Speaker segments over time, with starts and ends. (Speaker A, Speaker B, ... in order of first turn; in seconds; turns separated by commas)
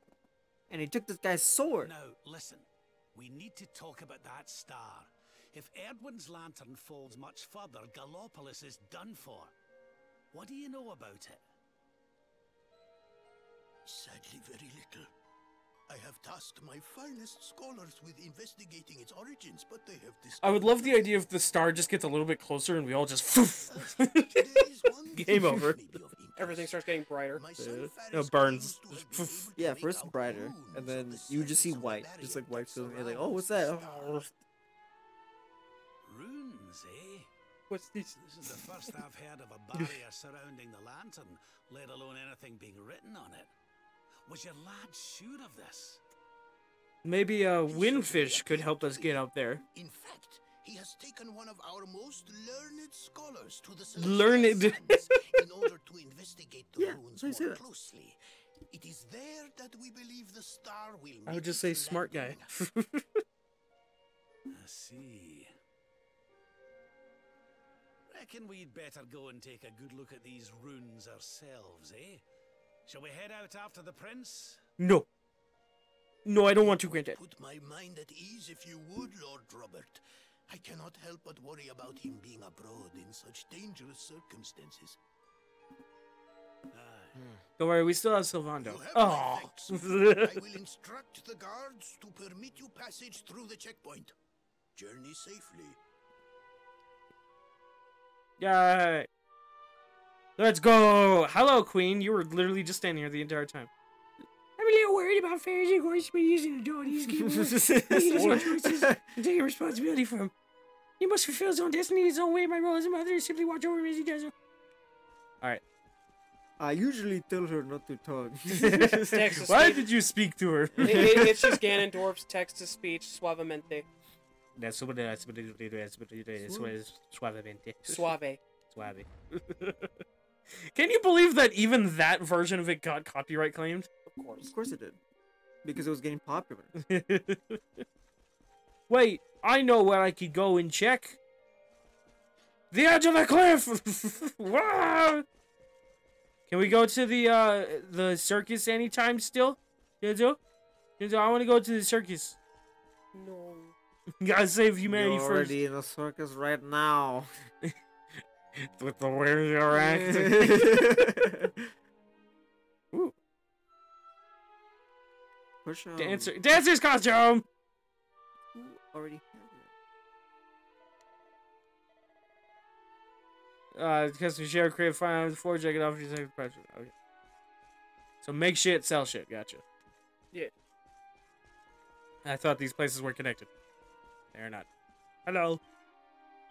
Speaker A: 0.7-1.9, Speaker B: 1.8-9.5, Speaker B: 10.3-11.4, Speaker C: 13.8-15.1, Speaker C: 15.9-21.2, Speaker D: 20.4-25.8, Speaker C: 23.6-26.8, Speaker E: 26.4-27.4, Speaker C: 27.3-34.3, Speaker D: 27.6-29.5, Speaker A: 29.5-34.3, Speaker B: 36.0-37.3, Speaker E: 37.7-38.1, Speaker B: 38.1-43.5, Speaker B: 44.2-46.0, Speaker D: 47.0-49.6, Speaker C: 47.7-58.2, Speaker D: 53.9-55.0, Speaker A: 56.8-57.6, Speaker C: 58.7-62.5, Speaker D: 61.2-63.2, Speaker B: 64.5-65.5, Speaker B: 68.1-72.2, Speaker B: 72.8-74.6, Speaker D: 74.8-75.0, Speaker D: 76.2-77.2, Speaker C: 76.5-85.0, Speaker B: 86.7-87.3, Speaker D: 87.6-90.4, Speaker C: 88.6-94.1, Speaker C: 94.7-95.8, Speaker D: 98.4-99.1, Speaker D: 100.4-103.7, Speaker D: 104.6-110.3, Speaker A: 107.0-109.1, Speaker D: 111.0-114.3, Speaker A: 116.6-119.2, Speaker D: 118.5-121.6, Speaker E: 119.1-119.9, Speaker A: 120.7-121.4, Speaker E: 120.8-123.9, Speaker D: 124.5-128.1, Speaker A: 126.4-126.7, Speaker E: 127.8-128.4, Speaker D: 128.7-129.9, Speaker D: 130.7-133.9, Speaker E: 134.1-134.5, Speaker A: 134.4-135.0, Speaker A: 135.6-136.7, Speaker D: 136.8-137.8, Speaker D: 138.9-141.2, Speaker D: 142.7-145.2, Speaker D: 146.5-150.4, Speaker D: 151.0-152.4, Speaker E: 153.1-153.7, Speaker D: 154.2-155.6, Speaker A: 154.8-157.3, Speaker D: 158.6-160.8, Speaker A: 159.7-161.7, Speaker A: 165.6-166.3, Speaker D: 166.0-167.4, Speaker A: 168.5-169.7, Speaker D: 173.7-176.9, Speaker D: 178.2-179.6, Speaker D: 182.2-183.5, Speaker D: 184.3-184.7, Speaker D: 185.2-185.6